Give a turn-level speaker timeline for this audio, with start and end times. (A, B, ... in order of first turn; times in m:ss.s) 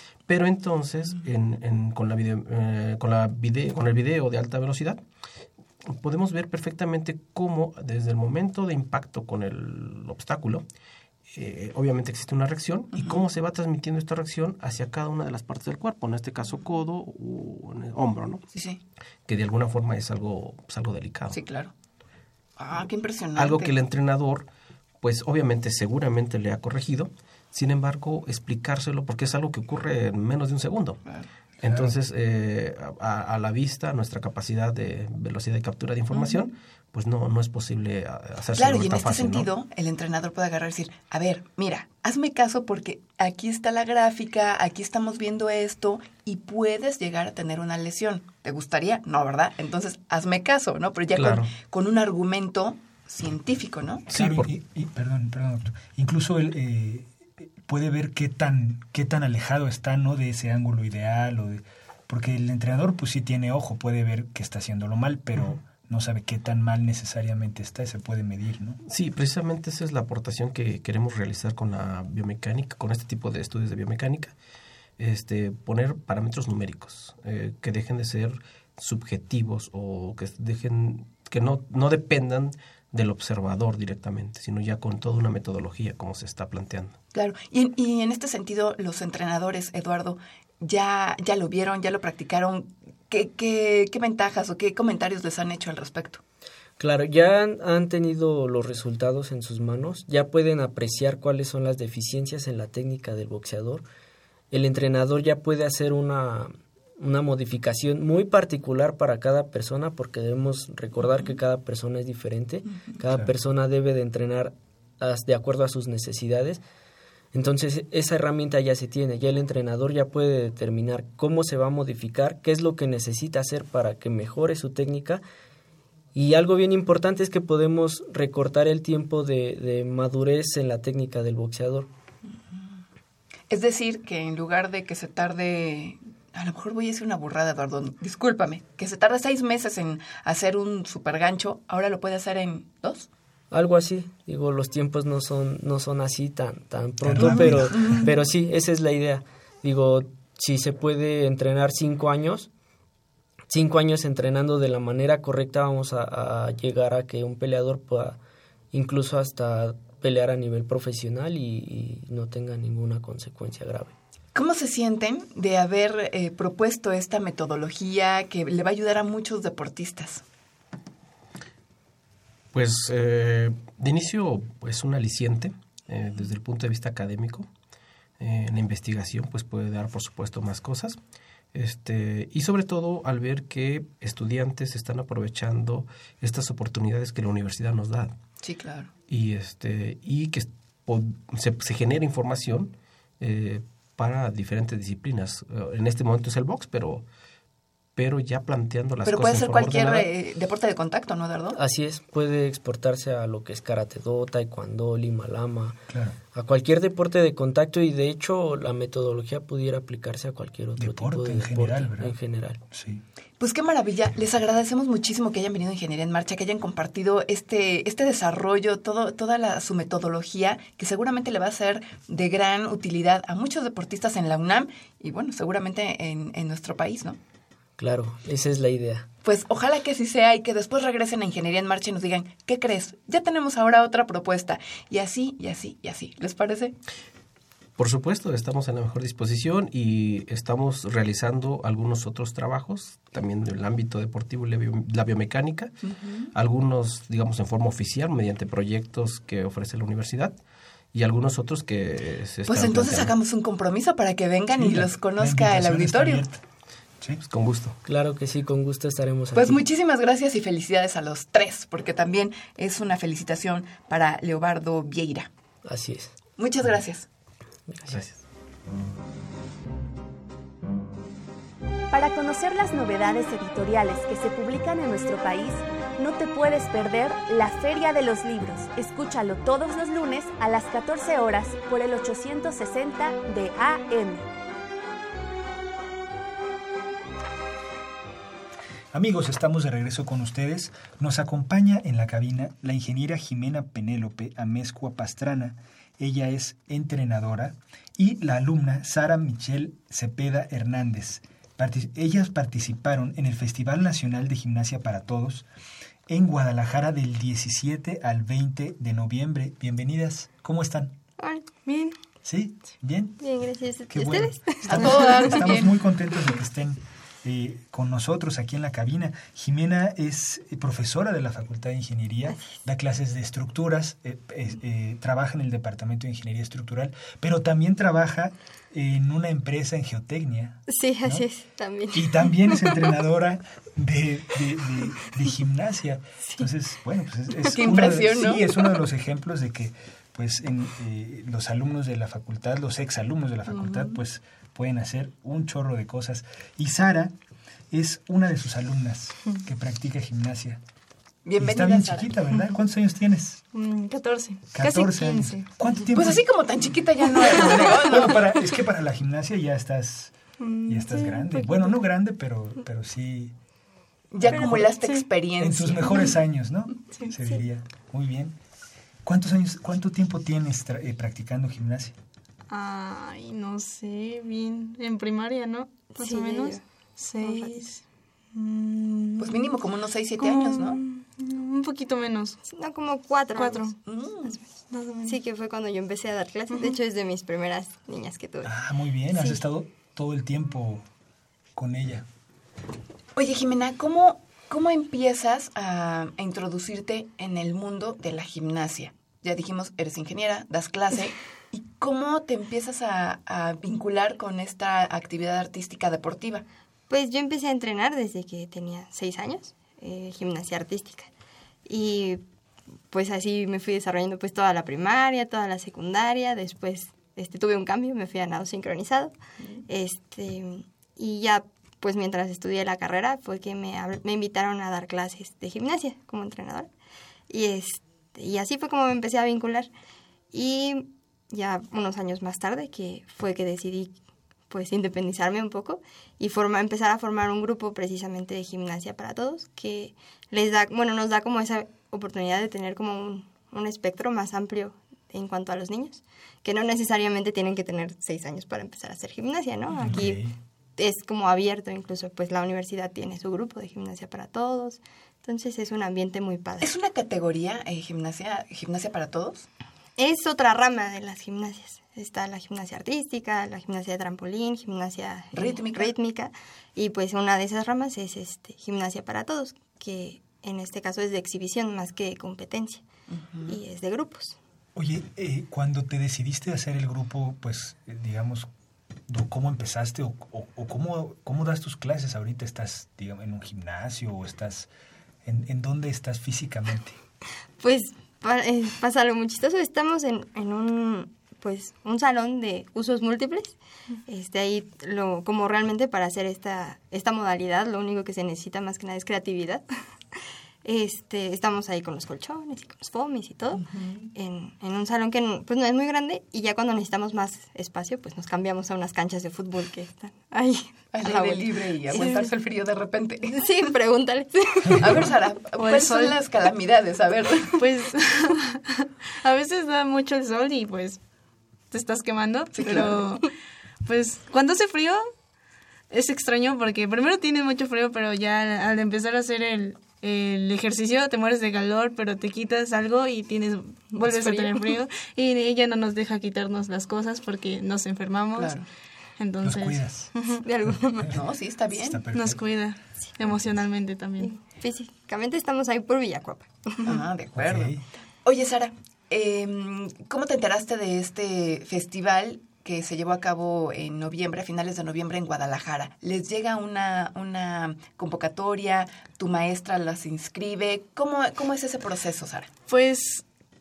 0:00.3-0:05.0 A
0:05.9-0:10.6 A
0:11.3-0:18.5 A
0:18.5-0:18.8 B
0:19.3-0:21.4 A
0:21.3-0:21.7 B
0:22.6-0:23.8 B
0:23.4-0:24.5 A
0:25.0-0:31.0 A
0:31.6-0:39.5 A
0:31.6-0:31.9 C
0:36.1-0:36.5 B
0:38.5-0:54.1 B
0:51.2-0:51.5 A
0:54.1-1:08.8 C
0:54.1-0:54.5 A
1:08.9-1:14.3 A
1:15.0-1:27.0 A
1:27.1-1:36.2 B
1:36.8-1:43.8 D
1:44.5-1:56.6 D
1:57.3-2:05.2 D
2:06.2-2:11.9 D
2:12.5-2:12.8 B
2:13.5-2:23.1 B
2:23.5-2:32.5 D
2:27.0-2:28.0 C
2:27.2-2:28.1 B
2:33.5-2:38.2 D
2:38.7-2:43.9 D
2:44.4-2:50.2 B
2:52.5-2:57.5 A
2:58.2-3:01.0 A
3:01.5-3:08.2 A
3:08.4-3:08.9 B
3:09.1-3:17.1 A
3:18.0-3:20.1 A
3:19.1-3:21.6 B
3:21.6-3:32.6 D
3:25.9-3:26.2 C
3:30.8-3:32.2 C
3:32.7-3:33.0 C
3:33.4-3:47.2 B
3:47.8-3:49.1 D
3:49.2-3:56.8 B
3:57.8-4:05.7 A
4:05.8-4:06.3 B
4:06.3-4:10.4 A
4:10.9-4:13.1 A
4:12.5-4:16.3 B
4:14.6-4:16.4 C
4:17.3-4:17.8 A
4:17.8-4:19.6 D
4:19.3-4:25.3 B
4:25.6-4:26.1 D
4:26.4-4:27.1 B
4:27.7-4:28.0 D
4:31.9-4:44.3 E
4:48.9-5:05.5 C
5:06.1-5:11.0 C
5:11.2-5:11.5 F
5:11.7-5:12.0 G
5:12.2-5:13.2 C
5:13.2-5:15.4 F
5:13.9-5:31.3 C
5:14.7-5:15.8 B
5:22.3-5:22.6 F
5:30.7-5:32.9 F
5:31.9-5:47.1 C
5:37.5-5:38.5 B
5:43.6-5:44.0 B
5:47.7-5:50.6 C
5:51.2-5:52.1 B
5:51.4-5:53.4 C
5:53.5-5:55.5 G
5:54.5-5:56.2 C
5:55.9-5:58.2 B
5:57.2-6:00.1 C
6:00.4-6:01.8 G
6:00.7-6:03.4 C
6:04.1-6:06.1 B
6:04.2-6:04.8 C
6:04.8-6:05.1 G
6:05.4-6:08.4 C
6:09.0-6:11.9 C
6:12.5-6:17.8 G
6:16.0-6:16.6 F
6:17.2-6:17.7 F
6:18.3-6:19.5 G
6:19.2-6:20.8 B
6:20.2-6:22.4 G
6:22.5-6:24.5 F
6:23.4-6:23.8 G
6:23.9-6:24.4 B
6:24.7-6:25.2 G
6:25.0-6:28.6 F
6:26.5-6:26.8 G
6:28.4-6:30.9 C
6:29.1-6:29.4 F
6:31.6-6:32.0 C
6:33.2-6:46.4 B
6:46.9-6:51.1 F
6:51.7-6:52.2 F
6:52.9-6:59.1 F
6:59.7-7:06.7 F
7:07.3-7:09.7 F
7:10.3-7:14.0 F
7:14.5-7:30.2 F
7:29.8-7:30.3 C
7:30.8-7:36.7 F
7:36.6-7:39.5 B
7:40.0-7:52.8 F
7:45.3-7:45.9 B
7:53.1-7:53.6 B
7:53.5-7:54.4 F
7:54.8-7:58.5 C
7:59.1-8:04.7 C
8:05.2-8:07.0 C
8:07.6-8:13.6 F
8:14.1-8:19.7 F
8:20.6-8:32.3 F
8:23.6-8:24.1 B
8:30.9-8:33.5 B
8:33.3-8:35.1 F
8:34.8-8:37.6 B
8:35.6-8:36.2 G
8:37.6-8:41.0 G
8:41.7-8:43.3 G
8:42.6-8:43.0 B
8:43.8-8:45.1 G
8:45.9-8:58.6 G
8:54.0-8:54.8 F
8:58.4-8:58.7 B
8:59.2-9:00.4 G
8:59.4-9:00.1 C
9:00.4-9:01.2 F
9:01.1-9:02.0 B
9:01.7-9:02.4 C
9:02.1-9:04.3 G
9:04.2-9:07.0 F
9:06.8-9:22.5 B
9:07.4-9:07.8 C
9:22.7-9:23.2 G